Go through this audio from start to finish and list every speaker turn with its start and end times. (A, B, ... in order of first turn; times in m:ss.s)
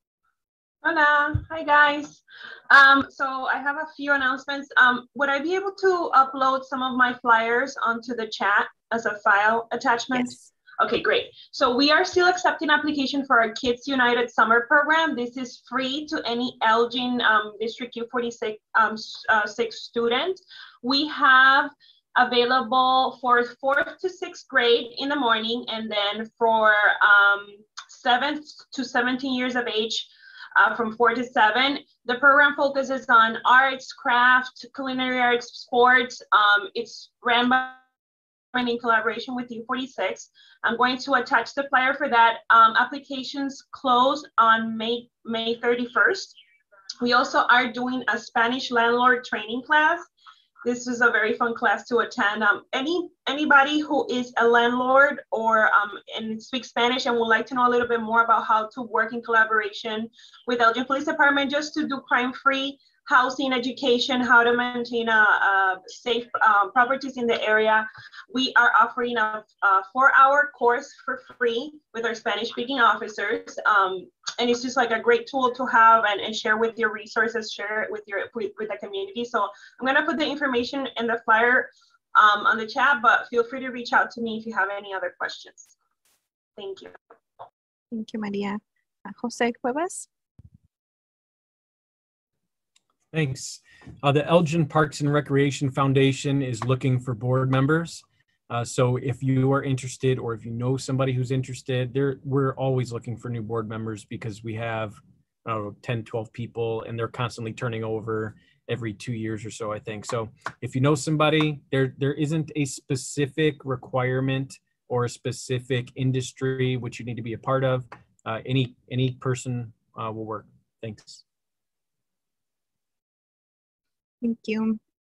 0:00.8-0:37.8 A
0:10.1-0:10.5 B
0:38.5-0:46.4 A
0:47.0-0:50.1 A
0:50.6-1:25.7 A
1:26.6-1:26.9 A
1:27.9-1:30.1 B
1:33.1-2:01.2 C
2:04.2-2:04.8 B